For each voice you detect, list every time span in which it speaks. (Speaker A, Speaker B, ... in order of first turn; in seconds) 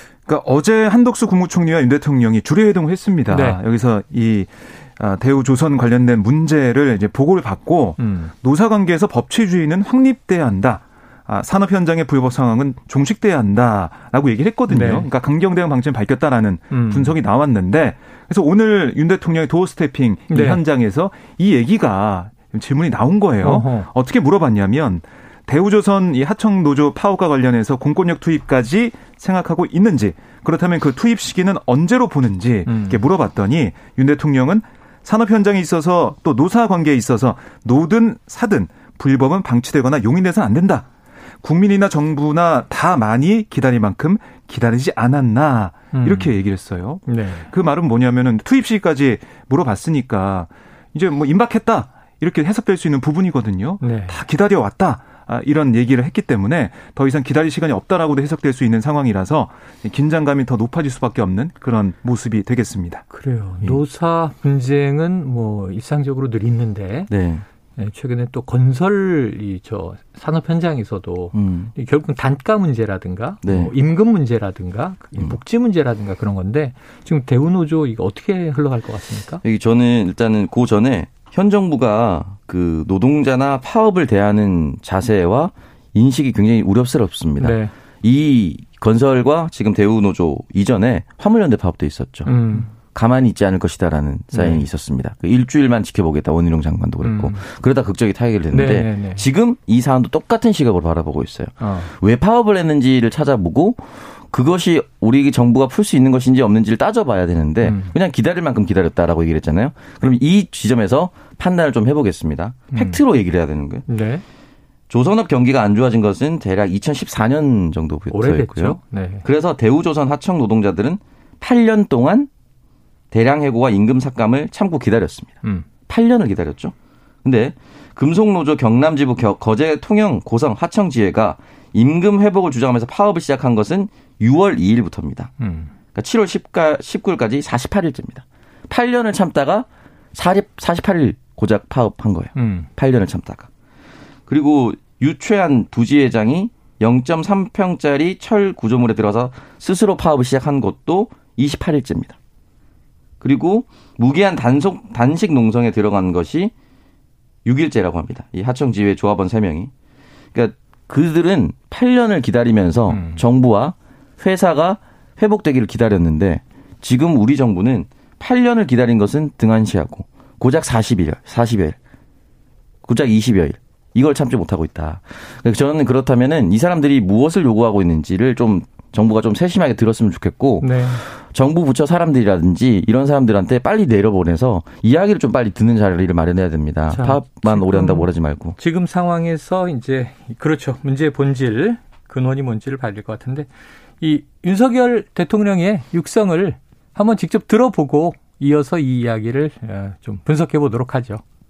Speaker A: 0.3-40.9, 41.4-63.0
Speaker B: 3.3-3.6, 8.0-8.3, 14.7-15.1, 16.7-17.1, 20.3-20.6, 23.4-23.9, 32.7-33.0, 45.9-46.3, 47.1-47.5, 53.8-54.2, 63.1-67.1, 67.8-79.4, 87.4-87.7, 92.3-92.7, 94.3-94.6, 97.0-97.4, 98.5-99.2, 101.6-101.9, 107.6-107.9, 112.7-113.0, 113.9-114.2, 118.1-119.2, 135.4-135.7, 142.4-142.7, 162.9-163.2, 180.6-181.0, 186.9-193.5, 194.0-201.2
Speaker C: 67.1-67.5, 71.3-71.7, 73.4-73.7, 79.4-113.9, 114.9-122.3, 123.1-135.3, 135.9-143.5, 144.3-152.2, 153.2-156.5, 157.4-159.7, 160.3-171.8, 172.9-188.6